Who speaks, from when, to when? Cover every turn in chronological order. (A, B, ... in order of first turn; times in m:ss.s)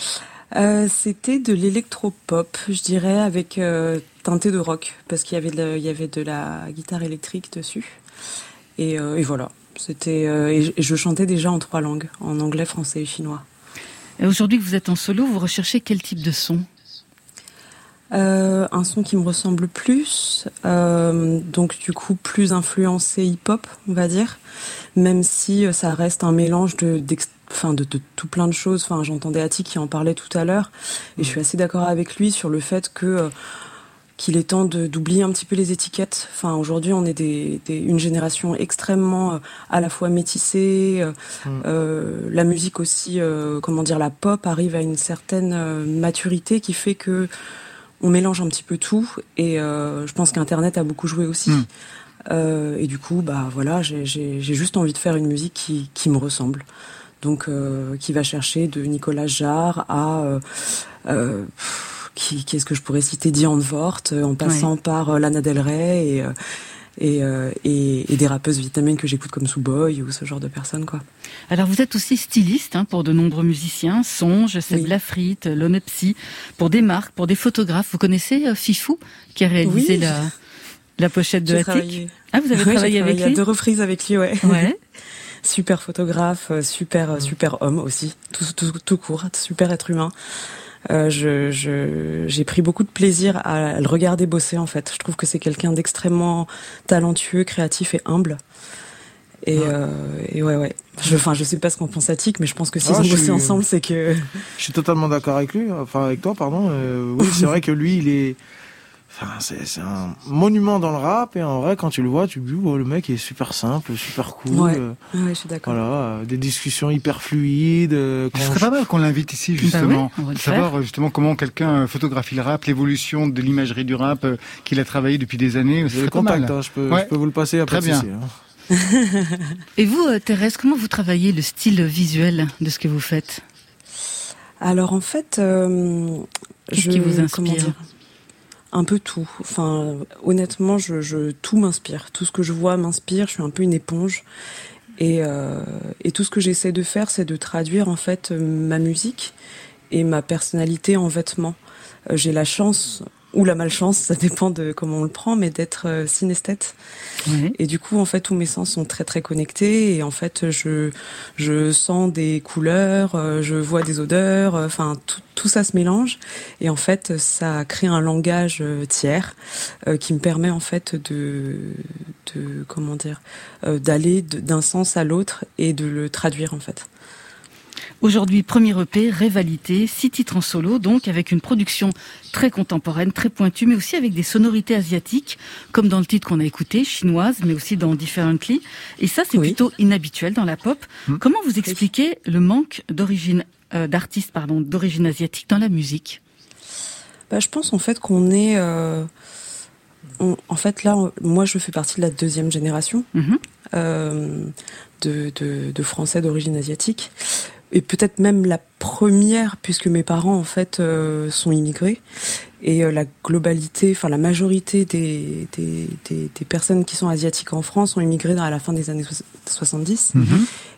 0:00.5-0:08.0 A
0:08.8-0:13.4 A
0:14.2-0:16.7 B
0:18.1-0:24.4 A
0:25.0-0:33.3 A
0:34.2-0:47.3 A
0:48.0-0:51.6 A
0:52.3-0:56.6 A
0:57.2-1:06.3 A
1:04.4-1:04.7 B
1:07.0-1:11.0 A
1:11.5-1:20.3 B
1:14.7-1:15.0 A
1:19.6-1:20.3 A
1:21.0-1:23.4 B
1:21.4-1:24.7 A
1:24.4-1:24.8 B
1:25.4-1:30.1 A
1:30.9-1:38.4 A
1:39.4-1:44.4 A
1:42.8-1:43.6 C
1:44.6-1:48.4 C
1:47.2-1:47.5 A
1:49.1-1:55.0 C
1:54.5-1:55.8 A
1:55.6-1:58.6 C
1:58.3-2:07.1 D
1:59.6-2:00.7 B
2:05.9-2:08.3 C
2:07.7-2:08.1 D
2:08.7-2:09.4 A
2:09.8-2:13.4 B
2:14.6-2:17.8 A
2:16.7-2:17.7 B
2:18.7-2:24.2 A
2:25.0-2:29.3 A
2:29.9-2:31.6 A
2:32.1-2:36.8 A
2:37.3-2:37.5 B
2:37.5-2:49.4 A
2:49.9-2:56.9 A
2:58.0-3:16.2 B
3:17.3-3:19.1 A
3:20.2-3:23.1 A
3:23.7-3:32.0 A
3:32.6-3:40.3 A
3:40.2-3:40.4 D